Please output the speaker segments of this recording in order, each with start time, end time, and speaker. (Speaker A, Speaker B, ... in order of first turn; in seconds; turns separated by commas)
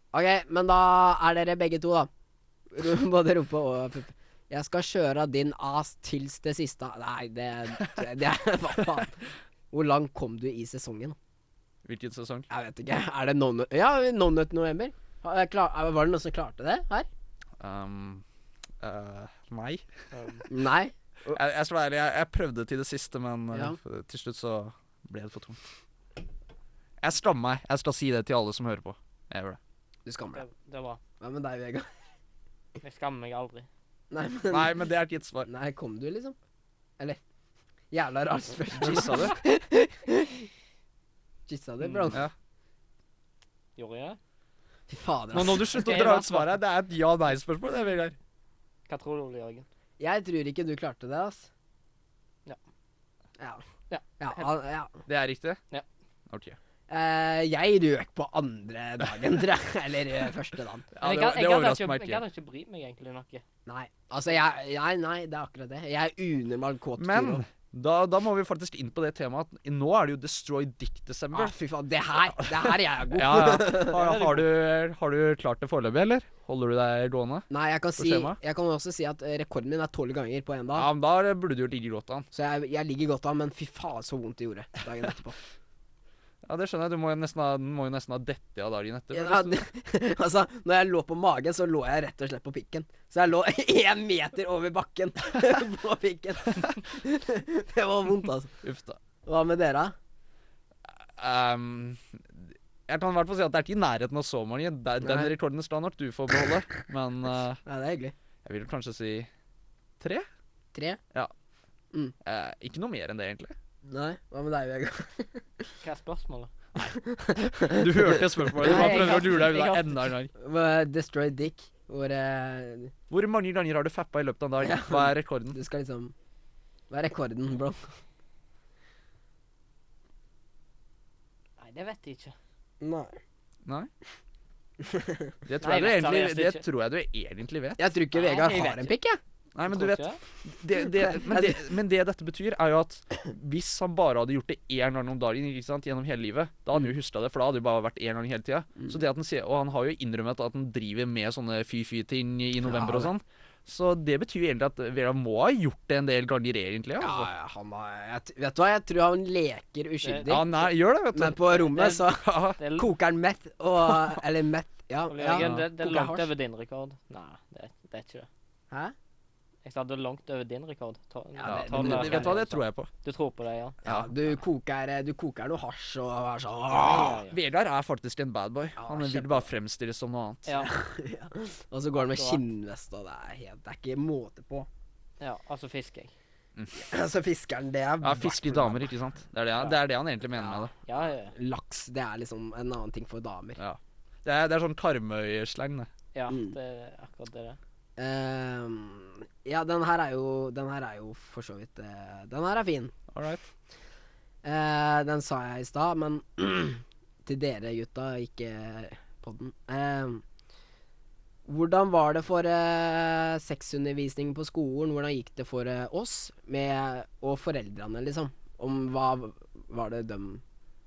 Speaker A: 0.1-2.1, Speaker A: 2.7-11.2, Speaker B: 11.8-12.5, Speaker A: 12.5-17.1, Speaker B: 17.6-18.2, Speaker B: 18.8-19.9, Speaker C: 20.1-20.4, Speaker A: 20.5-21.4, Speaker B: 21.3-25.6, Speaker A: 23.5-23.8, Speaker B: 27.0-29.6, Speaker A: 30.1-30.4, Speaker C: 30.4-31.0, Speaker A: 31.2-31.9, Speaker C: 32.8-33.7, Speaker A: 34.1-34.7, Speaker B: 34.5-35.5, Speaker A: 35.5-36.4, Speaker A: 37.9-40.5, Speaker B: 38.7-39.4, Speaker A: 41.5-42.2, Speaker B: 41.8-42.3, Speaker C: 43.8-44.2, Speaker A: 44.9-45.8, Speaker B: 45.3-48.2, Speaker C: 45.7-46.5, Speaker C: 48.9-49.7, Speaker A: 50.0-51.5, Speaker C: 53.9-54.5, Speaker A: 54.2-55.0, Speaker B: 55.1-55.6, Speaker B: 56.3-56.6, Speaker A: 56.9-60.9, Speaker B: 60.9-62.2, Speaker C: 61.0-63.4, Speaker A: 63.7-67.4, Speaker B: 67.0-71.5, Speaker A: 71.3-74.0, Speaker B: 72.4-78.4, Speaker C: 73.9-74.5, Speaker A: 77.5-80.9, Speaker B: 80.8-82.3, Speaker A: 82.3-85.4, Speaker B: 86.4-89.6, Speaker A: 89.1-98.5, Speaker B: 98.6-99.0, Speaker A: 99.3-100.0, Speaker B: 100.9-107.6, Speaker A: 105.0-105.3, Speaker A: 107.7-108.1, Speaker B: 108.5-109.3, Speaker B: 110.0-110.3, Speaker A: 110.7-111.0, Speaker B: 112.2-113.5, Speaker A: 113.9-115.7, Speaker C: 115.8-116.5, Speaker A: 116.8-119.5, Speaker B: 117.5-120.3, Speaker C: 118.6-120.1, Speaker A: 120.3-122.9, Speaker B: 123.1-125.6, Speaker A: 124.6-126.1, Speaker A: 126.9-127.9, Speaker C: 131.6-132.3, Speaker A: 132.8-133.2, Speaker B: 133.7-133.9, Speaker A: 134.8-135.3, Speaker B: 135.4-137.8, Speaker C: 135.6-136.6, Speaker A: 137.8-139.2, Speaker C: 138.1-138.9, Speaker B: 139.6-157.3, Speaker C: 139.7-140.2, Speaker A: 140.8-141.6, Speaker A: 152.6-153.1, Speaker A: 157.0-160.5, Speaker C: 160.0-160.6, Speaker B: 160.3-162.6, Speaker A: 161.1-166.3, Speaker C: 161.7-162.1, Speaker C: 162.6-162.9, Speaker C: 165.1-168.3, Speaker B: 165.4-165.7, Speaker C: 169.6-173.8, Speaker A: 171.4-172.4, Speaker B: 171.4-172.9, Speaker B: 173.8-174.4, Speaker A: 173.8-177.2, Speaker C: 176.8-177.4, Speaker B: 177.3-180.5, Speaker A: 178.8-179.5, Speaker A: 180.6-184.7, Speaker C: 182.0-182.4, Speaker C: 185.2-186.1, Speaker A: 186.8-188.9, Speaker B: 188.0-190.7, Speaker A: 190.3-190.7, Speaker C: 190.9-191.3, Speaker A: 191.3-193.6, Speaker B: 193.6-195.9, Speaker C: 196.1-197.6, Speaker A: 196.3-196.6, Speaker A: 198.0-202.9, Speaker B: 203.1-203.4, Speaker A: 204.4-210.2, Speaker A: 211.5-220.4